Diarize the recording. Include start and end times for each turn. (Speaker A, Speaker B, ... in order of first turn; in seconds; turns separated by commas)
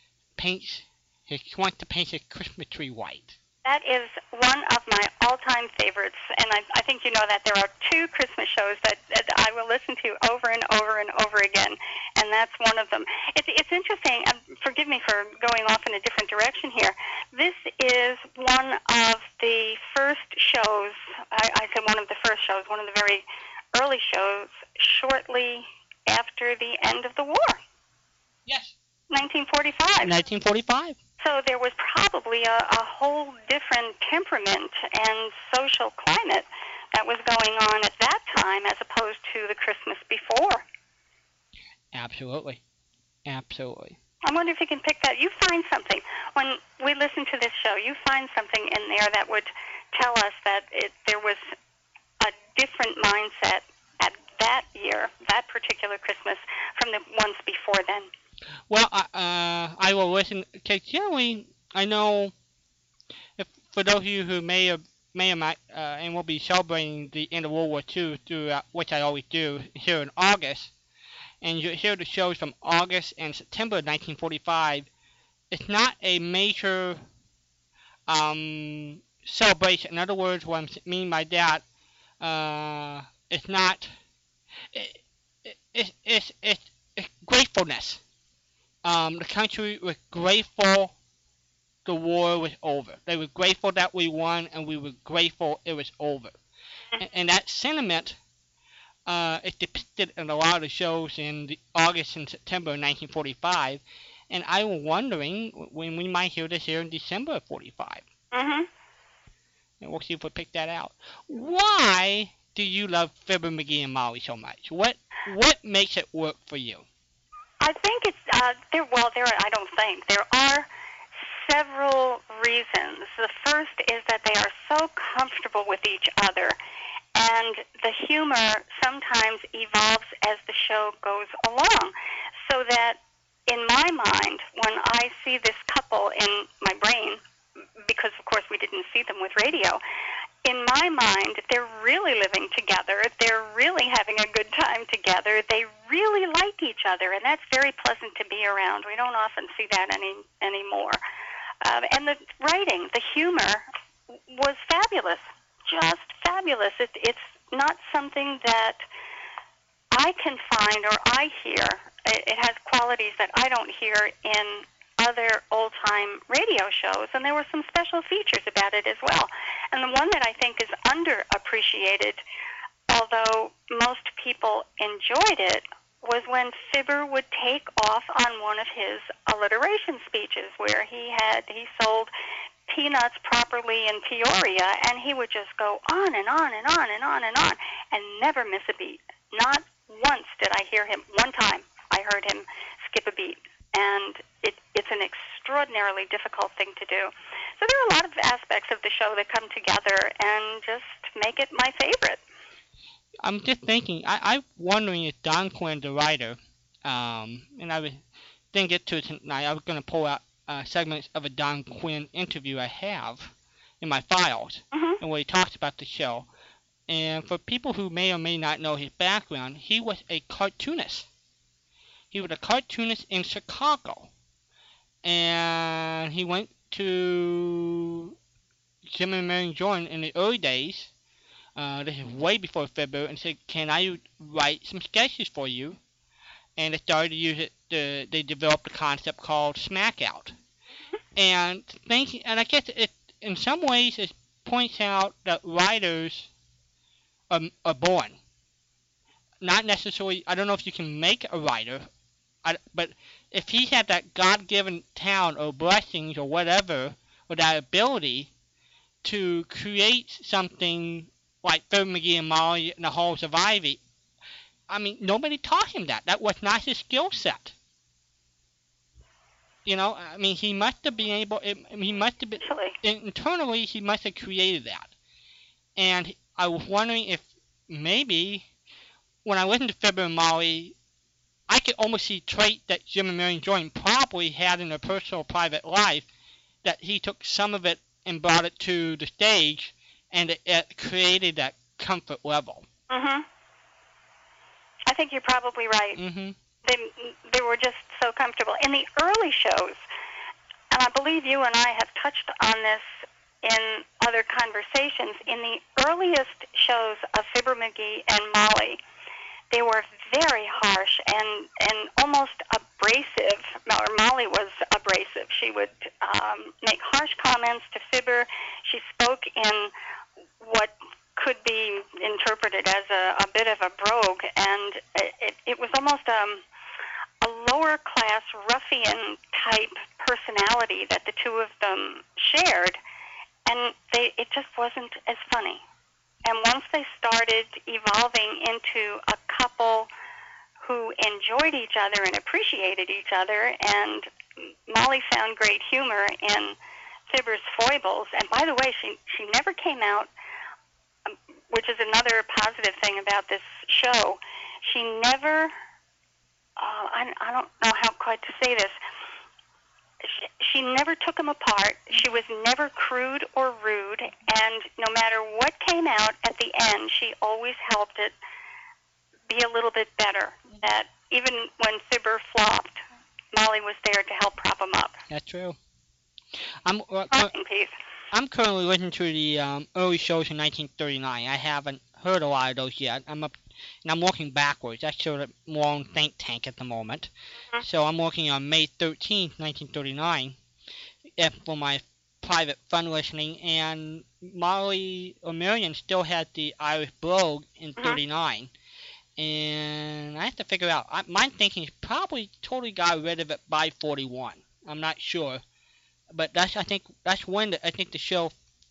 Speaker A: 0.4-3.4, Speaker B: 3.6-27.6, Speaker A: 28.5-28.7, Speaker B: 29.1-30.1, Speaker A: 30.0-31.0, Speaker B: 31.2-40.6, Speaker A: 41.9-42.6, Speaker A: 43.3-44.0, Speaker B: 44.2-51.5, Speaker B: 52.2-58.1, Speaker A: 58.7-62.3, Speaker A: 63.4-70.7, Speaker A: 71.4-74.9, Speaker A: 75.5-77.0, Speaker A: 78.1-81.6, Speaker A: 82.2-83.9, Speaker A: 84.7-88.0, Speaker A: 88.8-90.9, Speaker A: 91.8-96.3, Speaker A: 97.0-98.2, Speaker A: 99.1-108.0, Speaker B: 108.3-108.7, Speaker A: 109.8-116.8, Speaker B: 117.6-120.7, Speaker B: 121.2-126.6, Speaker B: 127.1-131.9, Speaker B: 132.5-137.2, Speaker B: 137.8-139.8, Speaker B: 140.4-151.0, Speaker B: 151.6-153.7, Speaker B: 154.3-158.8, Speaker B: 159.9-172.2, Speaker B: 172.9-182.1, Speaker B: 182.7-202.2, Speaker A: 203.2-208.0, Speaker A: 208.5-216.3, Speaker B: 214.7-215.0, Speaker A: 216.9-221.1, Speaker A: 222.1-224.1, Speaker A: 225.0-228.1, Speaker A: 228.9-230.9, Speaker A: 231.6-235.8, Speaker A: 236.6-240.3, Speaker A: 241.2-246.3, Speaker A: 247.3-248.2, Speaker A: 249.4-251.9, Speaker A: 252.4-258.3, Speaker A: 259.0-263.8, Speaker A: 264.7-267.5, Speaker A: 269.6-274.9, Speaker B: 272.4-272.8, Speaker A: 275.8-278.4, Speaker A: 279.2-280.7, Speaker A: 281.5-286.1, Speaker A: 286.6-292.6, Speaker B: 292.9-293.2, Speaker B: 294.9-296.0, Speaker A: 296.0-296.4, Speaker B: 296.6-299.8, Speaker B: 300.7-308.8, Speaker B: 309.5-319.7, Speaker B: 320.4-326.4, Speaker B: 327.2-332.8, Speaker B: 333.5-335.6, Speaker B: 336.2-339.9, Speaker B: 340.6-346.6, Speaker B: 347.1-350.1, Speaker B: 351.1-355.5, Speaker B: 356.6-358.8, Speaker B: 360.0-368.1, Speaker B: 369.3-372.8, Speaker B: 373.3-375.0, Speaker A: 375.1-375.6, Speaker A: 376.6-377.3, Speaker B: 377.1-377.7, Speaker A: 378.1-383.3, Speaker A: 383.9-387.1, Speaker A: 387.6-390.4, Speaker A: 391.2-398.5, Speaker A: 399.2-405.4, Speaker A: 406.1-408.3